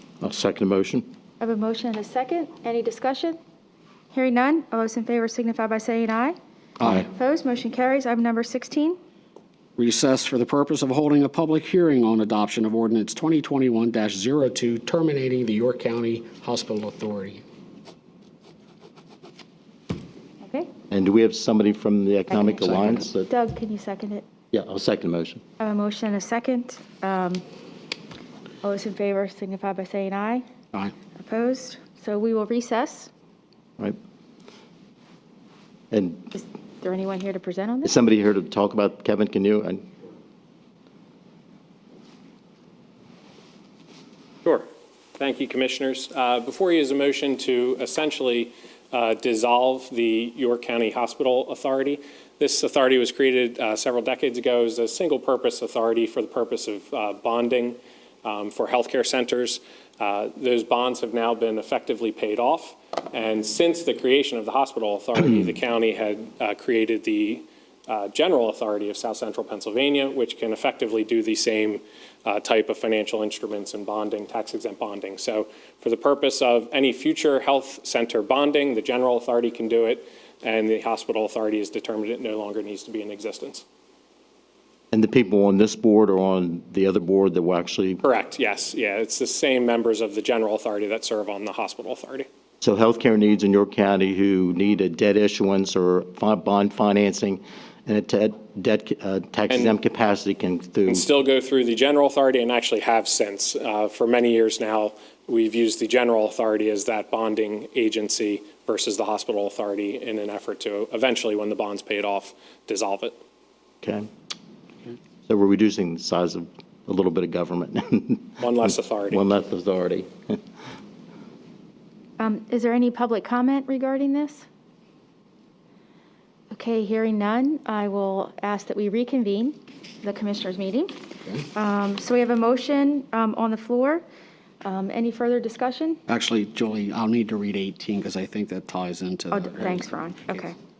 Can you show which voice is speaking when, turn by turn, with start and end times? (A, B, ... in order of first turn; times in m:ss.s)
0:00.2-0:01.1 A
0:01.4-0:03.4 B
0:04.1-0:06.4 B
0:06.8-0:07.0 C
0:07.1-0:09.0 B
0:09.8-0:17.4 C
0:20.4-0:20.7 B
0:20.9-0:23.3 A
0:23.3-0:24.3 B
0:24.5-0:25.4 A
0:25.6-0:27.4 B
0:28.6-0:30.4 B
0:31.2-0:33.1 B
0:35.9-0:36.3 A
0:36.4-0:37.9 B
0:37.8-0:39.8 A
0:44.4-1:23.6 D
1:24.9-1:28.0 A
1:28.0-1:32.3 D
1:32.6-1:41.1 A
1:39.5-1:39.8 D
1:40.9-1:53.2 D
1:53.8-1:54.1 A
1:55.3-1:58.4 A
1:58.4-1:59.2 D
1:59.1-2:00.4 A
2:02.2-2:04.4 B
2:06.5-2:11.0 B
2:11.5-2:14.0 B
2:14.6-2:16.0 B
2:16.1-2:20.3 C
2:19.3-2:20.6 B